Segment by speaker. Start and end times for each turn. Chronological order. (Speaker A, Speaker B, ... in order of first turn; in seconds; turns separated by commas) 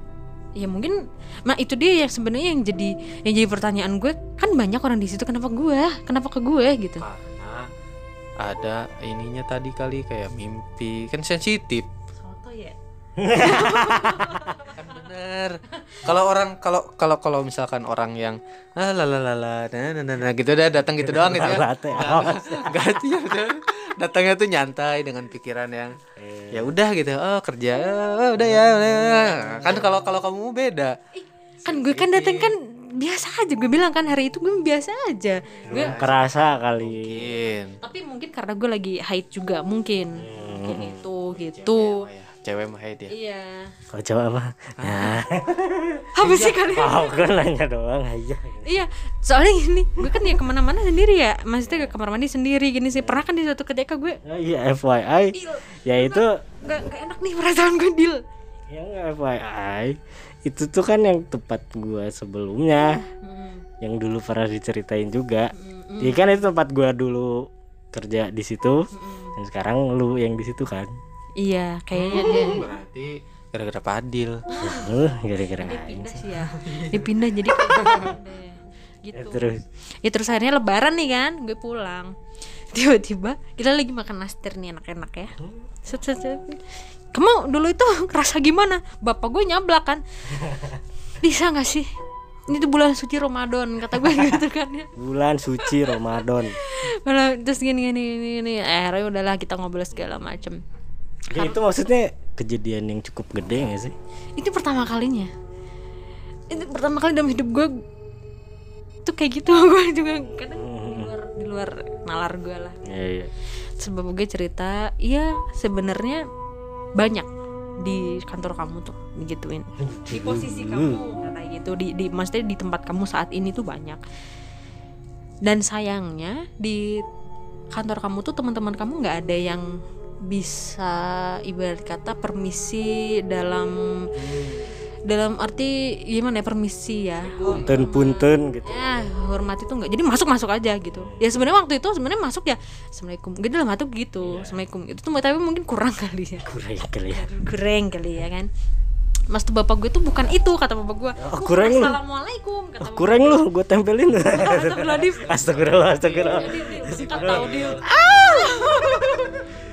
Speaker A: 0.6-7.0, Speaker B: 7.0-7.7, Speaker B: 8.4-11.9, Speaker A: 12.2-12.8, Speaker C: 13.2-14.6, Speaker A: 13.3-14.8, Speaker B: 14.7-25.9, Speaker A: 15.8-16.0, Speaker C: 21.0-22.4, Speaker C: 26.2-26.7, Speaker B: 26.5-30.9, Speaker C: 28.4-29.8, Speaker A: 31.1-36.0, Speaker B: 31.7-32.5, Speaker B: 35.6-37.8, Speaker C: 35.7-37.3, Speaker A: 37.8-42.0, Speaker C: 40.2-41.0, Speaker B: 41.3-43.1, Speaker A: 43.1-43.7, Speaker C: 43.9-48.7, Speaker B: 44.8-45.1, Speaker A: 46.1-47.2, Speaker A: 48.6-54.2, Speaker C: 51.7-51.9, Speaker C: 54.2-56.4, Speaker A: 55.3-58.2, Speaker C: 58.7-63.0, Speaker A: 63.0-63.6, Speaker C: 63.8-70.9, Speaker A: 65.5-66.4, Speaker A: 68.9-69.3, Speaker A: 71.4-72.6, Speaker B: 72.0-74.4, Speaker C: 72.1-72.6, Speaker A: 74.5-74.9, Speaker C: 74.6-76.3, Speaker A: 75.6-79.5, Speaker B: 76.6-77.0, Speaker B: 77.7-78.1, Speaker C: 79.1-79.6, Speaker A: 80.0-82.1, Speaker A: 82.7-90.0, Speaker C: 85.4-85.7, Speaker C: 90.4-90.8, Speaker A: 91.2-91.9, Speaker A: 92.5-94.9, Speaker C: 95.0-96.6, Speaker A: 95.6-100.6, Speaker C: 99.9-100.2, Speaker C: 101.3-103.9, Speaker A: 101.3-101.6, Speaker A: 104.4-105.3, Speaker A: 106.5-107.7, Speaker A: 109.0-112.8, Speaker C: 110.3-111.1, Speaker C: 112.8-113.3, Speaker A: 113.8-116.2, Speaker A: 117.0-117.3, Speaker A: 117.8-124.0, Speaker C: 119.8-121.2, Speaker A: 125.4-127.0, Speaker A: 127.7-129.7, Speaker A: 130.3-134.1, Speaker C: 134.1-134.7, Speaker A: 135.1-146.5, Speaker B: 137.2-137.8, Speaker C: 137.4-139.0, Speaker C: 140.9-141.2, Speaker C: 144.2-144.6, Speaker C: 146.4-147.3, Speaker A: 147.1-148.5, Speaker A: 149.3-153.4, Speaker C: 151.2-152.0, Speaker C: 152.8-157.6, Speaker A: 154.3-155.4, Speaker B: 155.2-157.9, Speaker A: 156.3-159.5